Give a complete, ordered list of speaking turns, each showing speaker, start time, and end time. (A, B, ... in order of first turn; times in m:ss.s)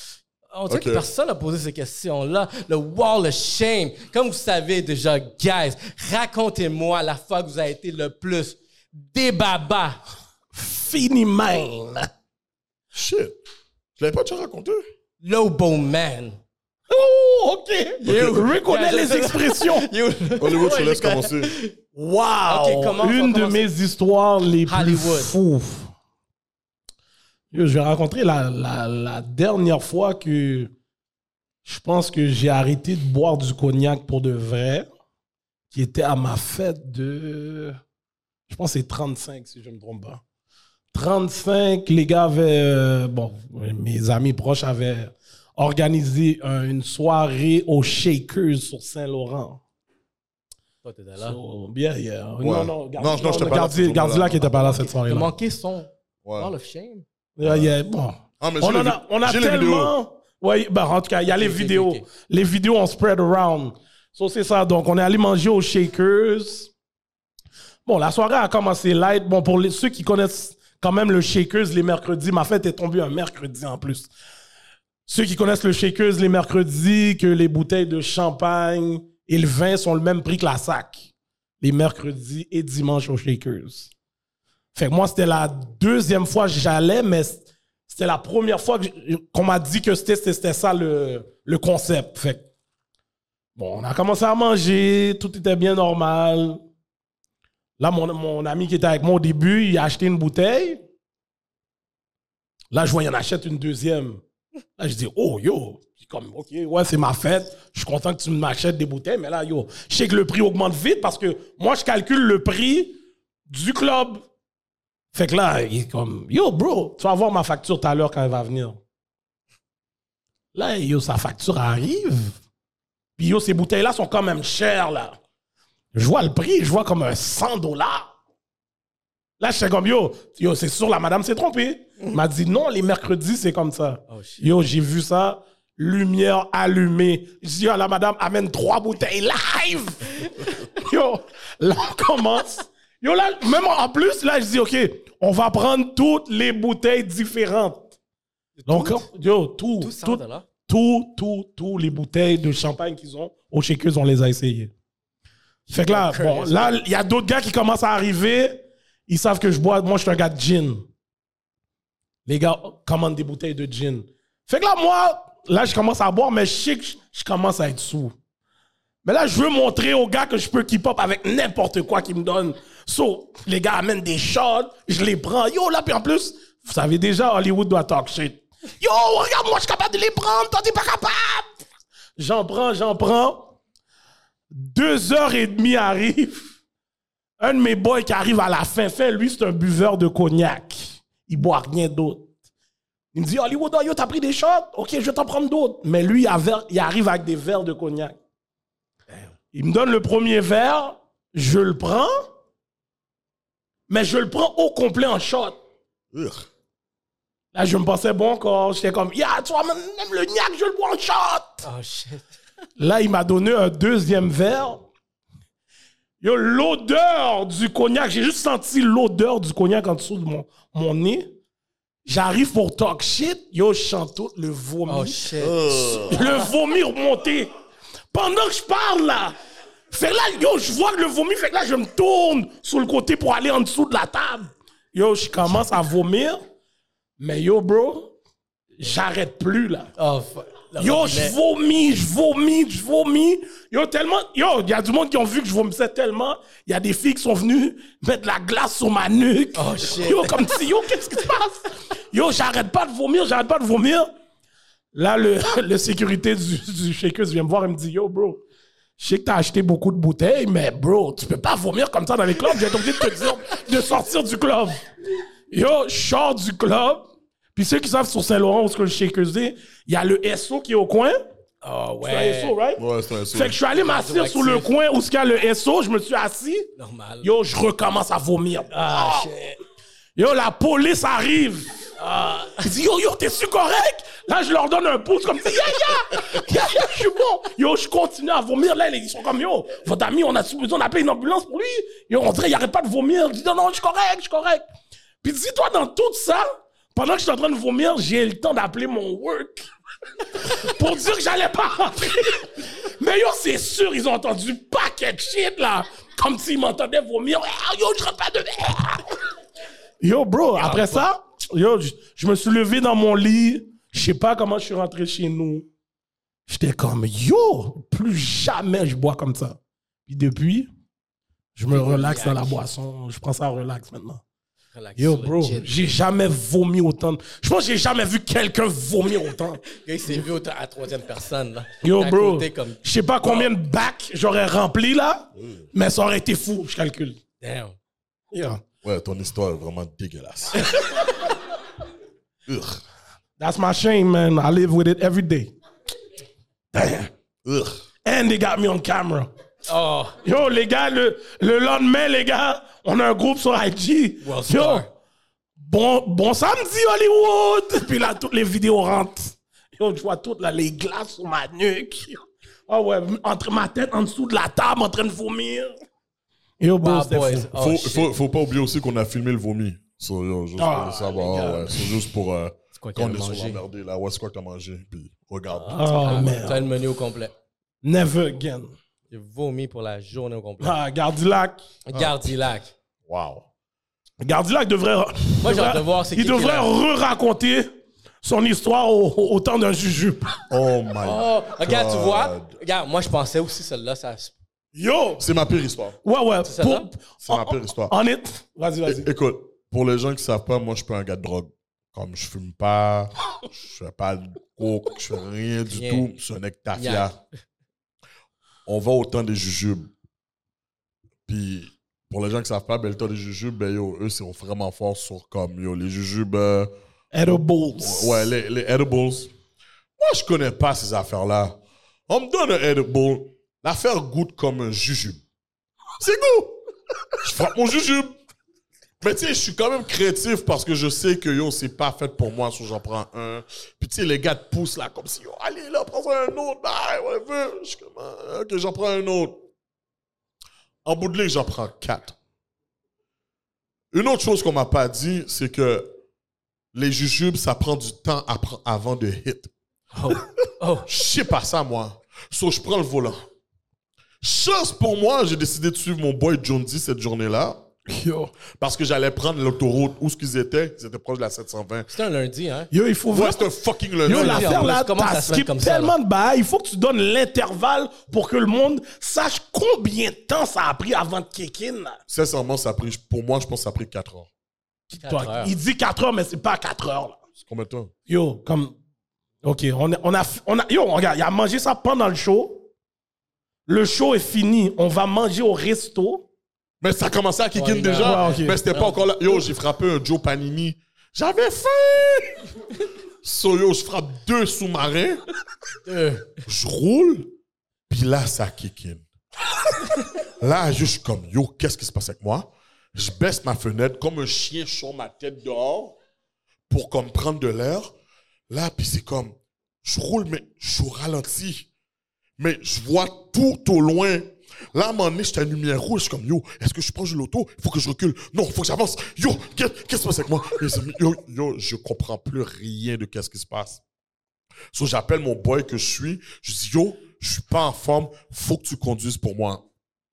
0:00.5-0:10.0 A
0:00.7-0:01.1 B
0:10.5-0:12.1 C
0:12.9-0:13.4 B
0:14.0-0:14.8 B
0:15.2-0:16.4 A
0:16.9-0:19.9 C
0:18.0-0:21.8 A
0:18.1-0:18.4 B
0:20.4-0:21.5 B
0:21.9-0:25.9 C
0:22.5-0:23.7 A
0:24.6-0:25.4 A
0:27.5-0:30.7 C
0:31.6-0:34.9 C
0:35.7-0:37.8 C
0:38.5-0:40.2 C
0:40.9-0:49.6 C
0:50.8-0:51.4 A
0:51.2-0:55.3 C
0:52.4-0:54.6 B
0:54.6-0:57.0 A
0:56.2-0:56.5 B
0:57.4-1:06.7 C
0:57.4-0:57.7 B
0:58.4-0:59.9 B
1:01.3-1:02.0 A
1:07.9-1:14.1 C
1:15.1-1:21.1 C
1:21.6-1:23.9 C
1:24.8-1:32.4 C
1:33.6-1:36.6 C
1:37.8-1:40.8 C
1:42.7-1:44.2 C
1:44.8-1:53.0 C
1:53.5-1:54.2 C
1:55.1-1:58.8 C
2:00.5-2:02.4 C
2:03.2-2:05.2 C
2:05.9-2:08.1 C
2:09.4-2:27.9 C
2:14.1-2:14.5 A
2:28.6-2:29.1 A
2:28.7-2:34.7 C
2:29.8-2:30.5 A
2:35.7-2:36.8 A
2:35.7-2:40.8 C
2:42.3-2:48.1 C
2:49.0-3:01.6 C
3:02.2-3:03.5 C
3:04.5-3:06.5 C
3:07.4-3:12.3 C
3:13.1-3:18.2 C
3:19.5-3:22.3 C
3:23.9-3:25.6 C
3:26.1-3:26.5 B
3:27.5-3:31.6 C
3:31.6-3:32.3 A
3:32.8-3:34.8 C
3:36.2-3:41.3 C
3:42.0-3:45.2 C
3:44.9-3:45.7 A
3:45.4-3:46.3 B
3:46.0-3:47.5 C
3:48.1-3:49.4 C
3:49.9-3:56.4 C
3:57.2-3:58.1 C
3:58.8-3:59.9 C
4:00.0-4:01.4 A
4:00.8-4:14.1 C
4:09.5-4:10.4 A
4:14.9-4:18.4 C
4:19.0-4:24.8 C
4:25.5-4:31.2 C
4:31.6-4:32.6 A
4:32.0-4:36.7 C
4:32.8-4:33.6 B
4:33.7-4:34.7 A
4:36.8-4:37.3 A
4:37.2-4:39.3 C
4:38.7-4:39.6 A
4:40.2-4:41.8 C
4:42.0-4:42.7 A
4:42.6-4:54.6 C
4:55.2-4:59.7 C
5:00.3-5:09.1 C
5:10.0-5:15.7 C
5:10.6-5:11.1 A
5:16.5-5:20.7 C
5:21.6-5:24.2 C
5:21.7-5:22.6 A
5:24.7-5:25.7 A
5:25.0-5:29.6 C
5:29.6-5:33.5 A
5:31.8-5:37.2 C
5:37.4-5:37.8 A
5:38.3-5:38.6 C
5:38.8-5:40.7 B
5:42.5-5:42.8 B
5:43.4-5:45.5 C
5:46.7-5:47.1 C
5:47.4-5:47.8 B
5:48.0-5:49.3 C
5:49.7-5:50.2 A
5:50.2-5:54.9 C
5:54.2-5:54.9 A
5:55.6-6:05.7 C
6:06.6-6:07.5 C
6:06.8-6:08.1 A
6:07.5-6:15.8 B
6:10.6-6:12.0 C
6:12.8-6:13.6 A
6:15.6-6:16.7 C
6:15.8-6:17.3 A
6:17.8-6:18.7 C
6:19.1-6:20.8 A
6:20.6-6:21.6 C
6:21.9-6:22.7 A
6:21.9-6:22.3 B
6:23.1-6:23.5 B
6:24.2-6:27.7 C
6:25.4-6:26.7 A
6:28.2-6:30.4 C
6:30.5-6:32.6 B
6:31.0-6:34.3 A
6:34.8-6:35.2 C
6:35.2-6:36.0 B
6:36.0-6:39.1 C
6:36.4-6:36.9 A
6:37.2-6:37.9 B
6:38.9-6:47.2 B
6:45.7-6:46.1 A
6:46.8-6:47.1 A
6:48.6-6:49.9 B
6:51.3-6:56.7 B
6:57.1-6:58.3 C
6:57.8-6:59.3 B
7:00.0-7:05.2 B
7:06.0-7:06.6 B
7:07.2-7:08.1 B
7:09.0-7:19.4 B
7:20.8-7:22.2 B
7:23.9-7:25.9 B
7:26.7-7:29.5 B
7:29.9-7:30.9 A
7:30.9-7:33.2 B
7:34.2-7:37.6 B
7:37.9-7:38.3 C
7:38.6-7:41.9 B
7:41.9-7:42.7 A
7:42.7-7:43.5 C
7:43.1-7:44.6 B
7:44.0-7:52.0 C
7:44.1-7:45.9 A
7:52.1-7:54.3 B
7:54.9-7:57.2 C
7:55.0-7:55.5 A
7:57.4-7:57.9 B
7:58.1-7:58.8 C
7:59.4-8:02.7 C
8:03.7-8:06.3 C
8:06.8-8:12.5 B
8:07.6-8:09.1 A
8:07.9-8:08.6 C
8:13.2-8:15.2 B
8:15.8-8:16.4 A
8:16.4-8:17.3 B
8:17.9-8:19.0 B
8:20.2-8:26.0 B
8:26.7-8:27.9 B
8:28.5-8:31.7 B
8:32.4-8:43.8 B
8:44.7-8:49.6 B